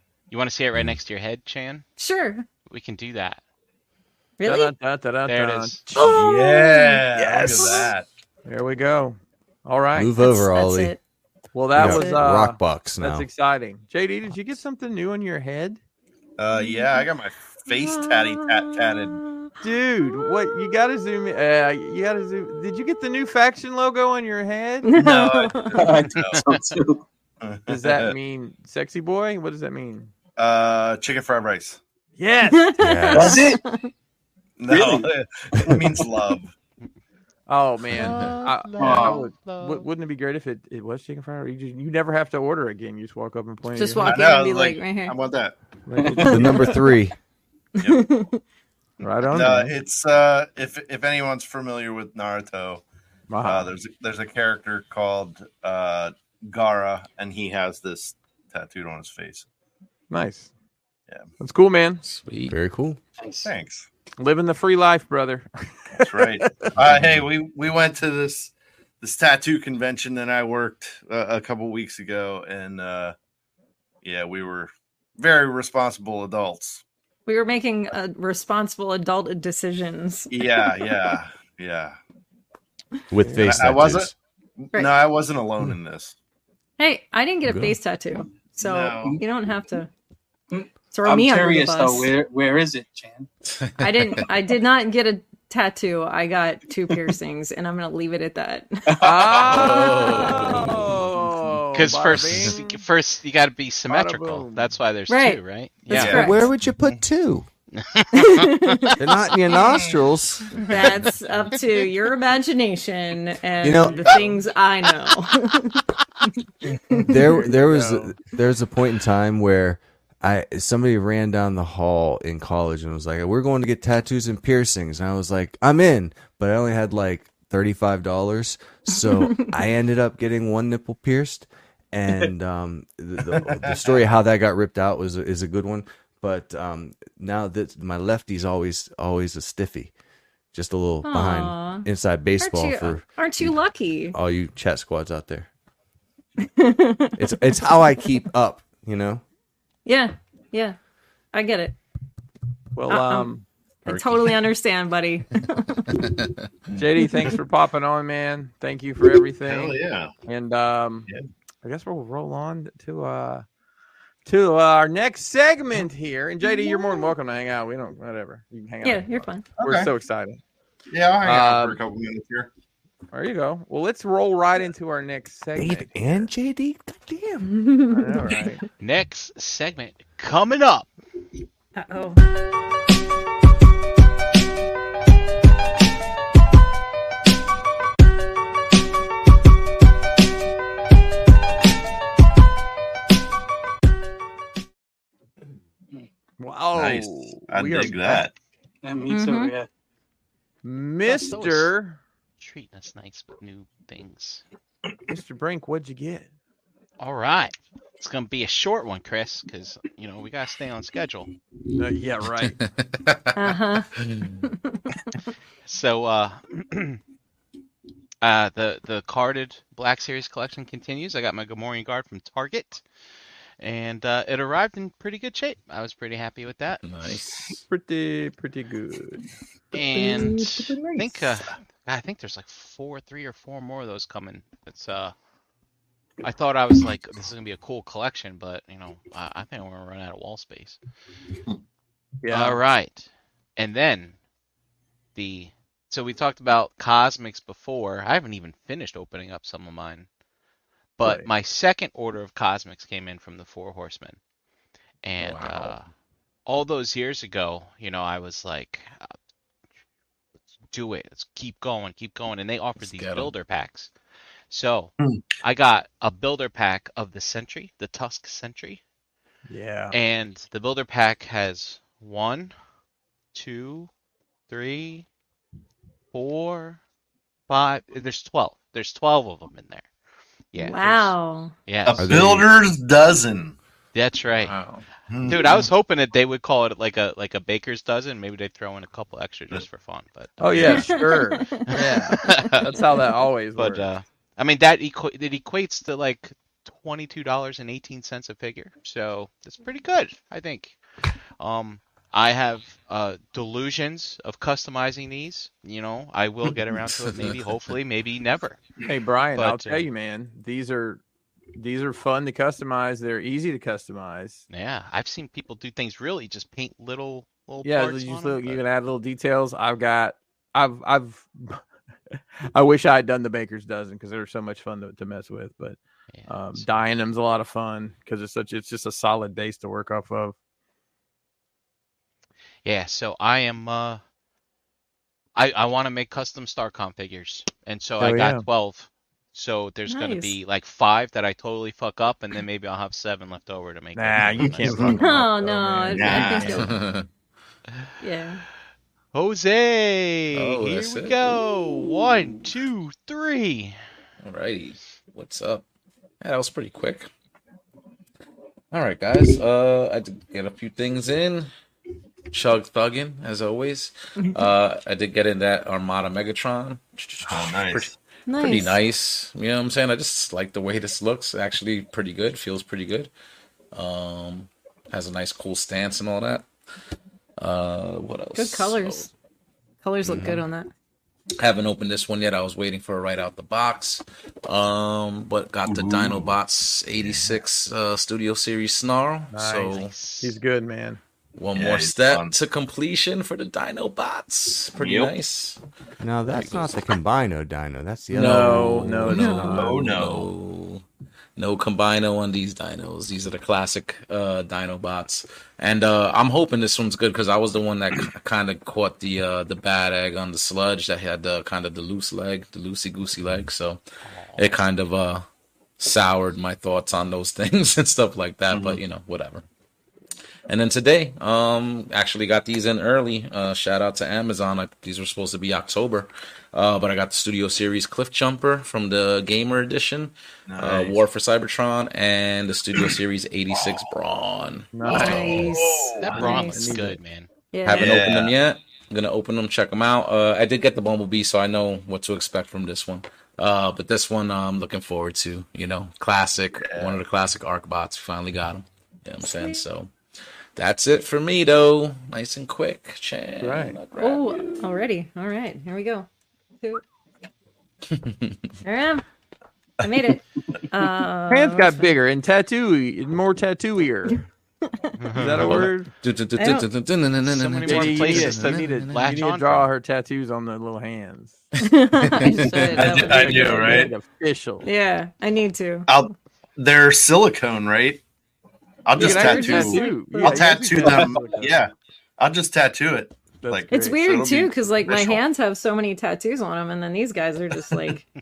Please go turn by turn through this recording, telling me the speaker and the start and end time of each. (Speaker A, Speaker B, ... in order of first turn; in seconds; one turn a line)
Speaker A: 0.3-1.9
Speaker B: 2.0-2.5
Speaker A: 2.7-3.4
Speaker B: 4.4-4.7
Speaker C: 4.5-6.3
Speaker A: 5.2-5.8
Speaker D: 6.0-8.1
Speaker B: 6.6-7.0
Speaker C: 7.2-7.7
Speaker B: 7.5-7.8
Speaker C: 8.5-10.1
Speaker E: 9.9-10.9
Speaker B: 10.2-11.0
Speaker C: 11.5-15.8
Speaker B: 11.8-12.2
Speaker E: 11.8-13.3
Speaker D: 16.4-19.2
Speaker B: 16.6-17.1
Speaker B: 17.7-19.5
Speaker C: 19.6-24.9
Speaker B: 24.8-25.9
Speaker D: 24.9-26.5
Speaker F: 25.7-27.0
Speaker A: 26.2-26.6
Speaker D: 27.4-28.1
Speaker C: 27.7-30.1
Speaker D: 30.4-31.8
Speaker C: 32.2-32.8
Speaker B: 32.5-33.9
Speaker E: 32.8-33.4
Speaker F: 33.1-33.6
Speaker D: 34.6-36.5
Speaker F: 34.7-35.1
Speaker F: 35.7-36.0
Speaker C: 37.5-44.1
Speaker A: 37.9-39.9
Speaker G: 38.0-38.3
Speaker F: 38.8-39.2
Speaker B: 43.7-45.1
Speaker D: 44.0-45.6
Speaker C: 45.9-46.7
Speaker E: 46.2-47.1
Speaker B: 46.2-46.9
Speaker B: 47.8-48.4
Speaker C: 49.0-49.8
Speaker D: 49.3-52.8
Speaker C: 53.3-53.7
Speaker D: 53.4-59.5
Speaker C: 60.1-60.5
Speaker C: 61.4-62.0
Speaker G: 62.0-62.6
Speaker E: 62.5-63.0
Speaker F: 63.2-63.5
Speaker D: 63.4-63.9
Speaker C: 64.2-66.5
Speaker D: 66.0-73.2
Speaker G: 66.8-67.2
Speaker D: 74.0-76.8
Speaker B: 77.3-80.3
Speaker D: 80.3-82.0
Speaker E: 83.1-84.1
Speaker D: 83.4-86.2
Speaker B: 86.8-89.9
Speaker E: 87.5-87.8
Speaker D: 88.5-89.2
Speaker F: 90.5-93.3
Speaker B: 90.9-92.1
Speaker G: 93.5-94.3
Speaker B: 93.8-98.9
Speaker F: 98.9-99.4
Speaker C: 99.0-102.8
Speaker G: 99.5-101.0
Speaker B: 99.8-100.7
Speaker A: 101.7-106.3
Speaker G: 102.1-102.5
Speaker C: 103.9-104.7
Speaker B: 105.1-106.5
Speaker D: 105.9-106.3
Speaker E: 105.9-107.5
Speaker A: 107.8-108.8
Speaker B: 108.1-109.1
Speaker E: 109.0-110.9
Speaker D: 109.6-110.1
Speaker B: 110.6-116.3
Speaker E: 113.6-114.1
Speaker C: 113.9-114.4
Speaker B: 116.9-117.2
Speaker E: 117.0-139.9
Speaker C: 117.6-118.1
Speaker B: 129.1-129.5
Speaker D: 133.3-134.0
Speaker E: 140.5-143.6
Speaker B: 141.0-141.9
Speaker B: 142.4-144.2
Speaker E: 144.1-145.5
Speaker B: 146.4-147.2
Speaker E: 147.2-149.2
Speaker B: 149.9-150.8
Speaker B: 151.3-151.8
Speaker C: 152.8-153.5
Speaker B: 152.9-153.3
Speaker B: 153.8-156.1
Speaker G: 153.9-154.4
Speaker G: 155.9-156.5
Speaker C: 156.8-161.1
Speaker D: 159.4-160.1
Speaker C: 161.6-163.4
Speaker C: 164.3-170.4
Speaker B: 166.4-167.1
Speaker B: 168.8-169.5
Speaker D: 169.6-169.9
Speaker D: 170.9-172.5
Speaker C: 171.2-171.8
Speaker C: 173.1-176.3
Speaker E: 175.6-177.5
Speaker B: 177.4-178.5
Speaker C: 177.9-178.6
Speaker A: 178.8-180.9
Speaker B: 181.8-182.2
Speaker C: 196.4-198.3
Speaker D: 196.7-198.3
Speaker F: 198.8-199.7
Speaker B: 199.1-199.5
Speaker C: 200.6-202.0
Speaker A: 201.1-201.7
Speaker A: 202.4-204.4
Speaker C: 205.1-206.3
Speaker A: 207.0-211.3
Speaker C: 211.8-212.6
Speaker G: 212.5-213.4
Speaker B: 213.4-213.9
Speaker G: 213.9-214.4
Speaker B: 214.4-215.0
Speaker A: 215.7-217.0
Speaker A: 218.2-222.8
Speaker A: 223.6-226.8
Speaker G: 226.8-227.6
Speaker C: 227.7-229.2
Speaker A: 229.7-235.1
Speaker B: 229.9-231.0
Speaker A: 236.2-240.8
Speaker C: 242.2-242.6
Speaker A: 242.3-244.2
Speaker A: 245.2-250.1
Speaker A: 251.0-254.2
Speaker C: 251.0-251.3
Speaker A: 255.0-255.9
Speaker G: 255.2-255.8
Speaker A: 256.5-259.1
Speaker A: 260.7-263.9
Speaker G: 262.8-263.3
Speaker A: 264.5-268.8
Speaker C: 269.5-270.0
Speaker A: 269.9-272.5
Speaker A: 273.3-273.9
Speaker A: 274.5-275.1
Speaker A: 276.1-276.8
Speaker A: 277.5-279.9
Speaker A: 280.5-281.2
Speaker B: 280.6-281.5
Speaker A: 281.7-282.1
Speaker D: 281.9-283.6
Speaker E: 282.0-282.5
Speaker A: 283.9-284.6
Speaker G: 284.4-284.9
Speaker D: 285.1-285.7
Speaker A: 285.2-290.9
Speaker C: 290.4-293.9
Speaker D: 290.5-290.8
Speaker B: 290.8-292.4
Speaker A: 291.7-292.7
Speaker A: 293.6-300.8
Speaker A: 301.4-308.6
Speaker G: 307.1-307.4
Speaker C: 308.9-311.0
Speaker A: 309.4-309.9
Speaker C: 311.6-314.4
Speaker A: 314.5-318.6
Speaker C: 317.6-330.4
Speaker A: 326.1-326.7
Speaker A: 332.6-334.0
Speaker A: 335.4-345.0
Speaker C: 338.0-338.4
Speaker B: 339.9-340.4
Speaker C: 343.9-346.6
Speaker D: 344.4-345.1
Speaker B: 344.9-346.7
Speaker D: 345.9-346.6
Speaker G: 346.4-347.1
Speaker B: 348.0-348.4
Speaker A: 349.1-353.8
Speaker G: 350.3-351.4
Speaker G: 354.2-355.6
Speaker G: 356.2-357.1
Speaker G: 358.7-361.5
Speaker G: 362.3-373.1
Speaker B: 364.2-364.5
Speaker D: 367.2-367.9
Speaker B: 368.3-368.8
Speaker G: 373.7-376.5
Speaker G: 377.4-379.1
Speaker B: 378.4-379.1
Speaker B: 379.8-380.7
Speaker E: 380.1-380.4
Speaker G: 380.1-380.4
Speaker G: 381.4-389.9
Speaker D: 385.7-386.4
Speaker D: 387.0-387.4
Speaker C: 389.3-391.0
Speaker A: 389.7-390.4
Speaker G: 391.4-395.6
Speaker D: 391.5-392.4
Speaker D: 394.8-395.1
Speaker E: 396.0-400.0
Speaker G: 396.3-396.8
Speaker C: 398.1-399.8
Speaker G: 398.2-398.5
Speaker G: 399.1-400.8
Speaker B: 399.1-399.5
Speaker D: 399.5-400.3
Speaker G: 401.4-413.8
Speaker A: 414.0-414.6
Speaker G: 414.4-415.3
Speaker G: 415.8-419.4
Speaker D: 418.5-418.8
Speaker G: 420.5-435.5
Speaker D: 430.5-431.1
Speaker C: 434.7-435.3
Speaker D: 434.8-436.4
Speaker B: 434.9-436.8
Speaker A: 436.0-437.3
Speaker C: 436.2-437.0
Speaker B: 437.5-437.9
Speaker G: 437.7-449.9
Speaker D: 437.7-438.4
Speaker D: 446.6-447.0
Speaker B: 449.2-449.6
Speaker G: 450.6-454.7
Speaker C: 453.4-453.8
Speaker B: 454.0-456.1
Speaker G: 457.9-458.5
Speaker B: 458.6-459.0
Speaker B: 459.8-461.9
Speaker C: 461.3-464.2
Speaker A: 465.0-465.6
Speaker C: 465.1-465.9
Speaker G: 465.2-469.0
Speaker B: 466.4-466.7
Speaker A: 467.2-469.7
Speaker C: 467.6-471.4
Speaker B: 471.6-473.9
Speaker G: 472.0-472.8
Speaker C: 472.4-474.7
Speaker D: 472.7-473.9
Speaker B: 474.6-475.9
Speaker D: 475.9-478.0
Speaker D: 478.9-485.2
Speaker B: 479.0-480.8
Speaker C: 479.0-481.6
Speaker C: 483.4-484.0
Speaker B: 483.7-488.1